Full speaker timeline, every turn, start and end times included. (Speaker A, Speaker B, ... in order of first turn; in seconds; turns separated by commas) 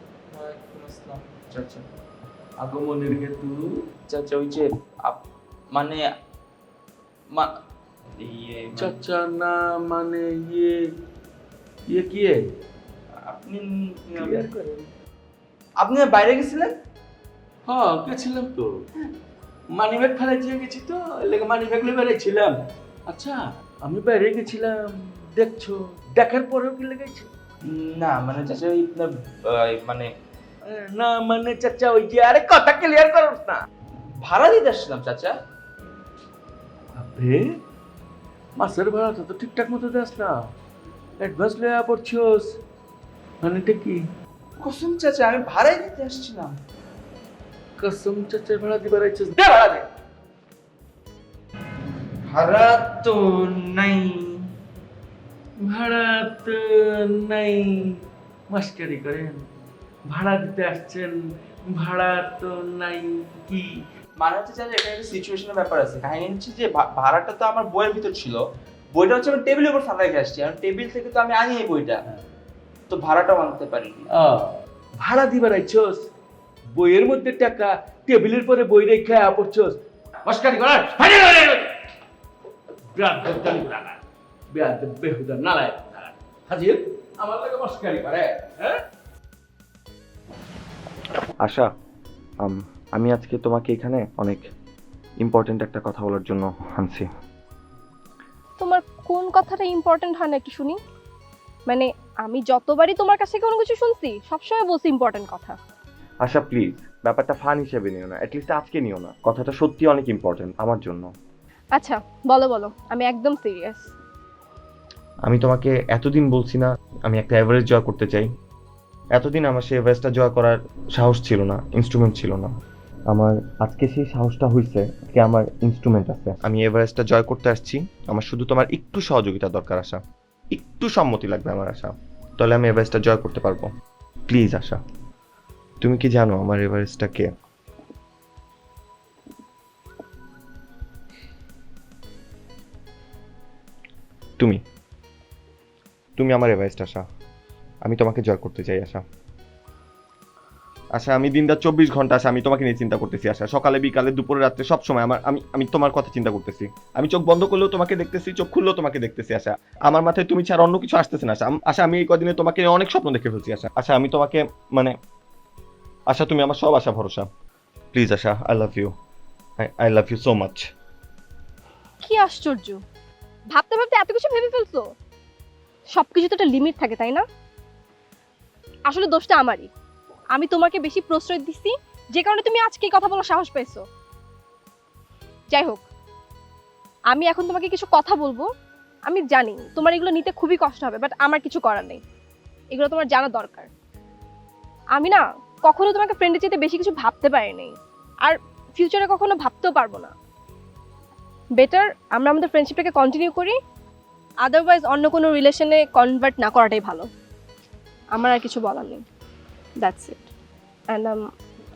Speaker A: 0.3-1.9, Speaker B: 2.6-3.6, Speaker A: 4.1-6.0, Speaker A: 8.2-9.0, Speaker B: 8.8-10.8, Speaker B: 11.9-12.4, Speaker A: 13.1-14.5, Speaker B: 14.1-14.9, Speaker A: 15.8-16.7, Speaker B: 17.7-18.7, Speaker B: 19.7-22.6, Speaker B: 23.1-27.3, Speaker A: 27.7-30.1, Speaker B: 30.6-33.6, Speaker A: 34.2-35.3, Speaker B: 37.0-37.4, Speaker B: 38.6-40.3, Speaker B: 41.2-42.5, Speaker B: 43.4-44.0, Speaker A: 44.6-46.5, Speaker B: 47.8-49.9, Speaker A: 52.3-54.4, Speaker B: 55.6-58.0, Speaker B: 58.5-59.5, Speaker B: 60.1-63.7, Speaker A: 64.2-72.0, Speaker A: 72.9-74.1, Speaker B: 74.1-76.1, Speaker B: 76.8-81.8, Speaker B: 82.9-84.0, Speaker B: 84.5-88.8, Speaker C: 91.4-91.7, Speaker C: 92.4-94.5, Speaker C: 95.2-97.1, Speaker D: 98.6-100.8, Speaker D: 101.7-105.6, Speaker C: 106.2-111.1, Speaker D: 111.8-113.9, Speaker C: 115.2-118.3, Speaker C: 119.2-122.5, Speaker C: 123.1-130.0, Speaker C: 130.5-133.7, Speaker C: 134.3-134.8, Speaker C: 135.8-137.3, Speaker C: 146.2-147.0, Speaker C: 147.8-149.0, Speaker C: 150.9-164.9, Speaker C: 166.1-167.2, Speaker C: 167.9-168.9, Speaker C: 169.6-170.7, Speaker D: 172.0-172.8, Speaker D: 173.5-174.8, Speaker D: 175.9-177.2, Speaker D: 178.9-179.7, Speaker D: 180.3-183.8, Speaker D: 185.5-185.8, Speaker D: 187.1-188.5, Speaker D: 189.1-192.0, Speaker D: 192.7-193.7, Speaker D: 194.9-200.1, Speaker D: 201.6-203.6, Speaker D: 204.4-207.1, Speaker D: 208.1-209.0, Speaker D: 209.8-210.3, Speaker D: 210.9-211.2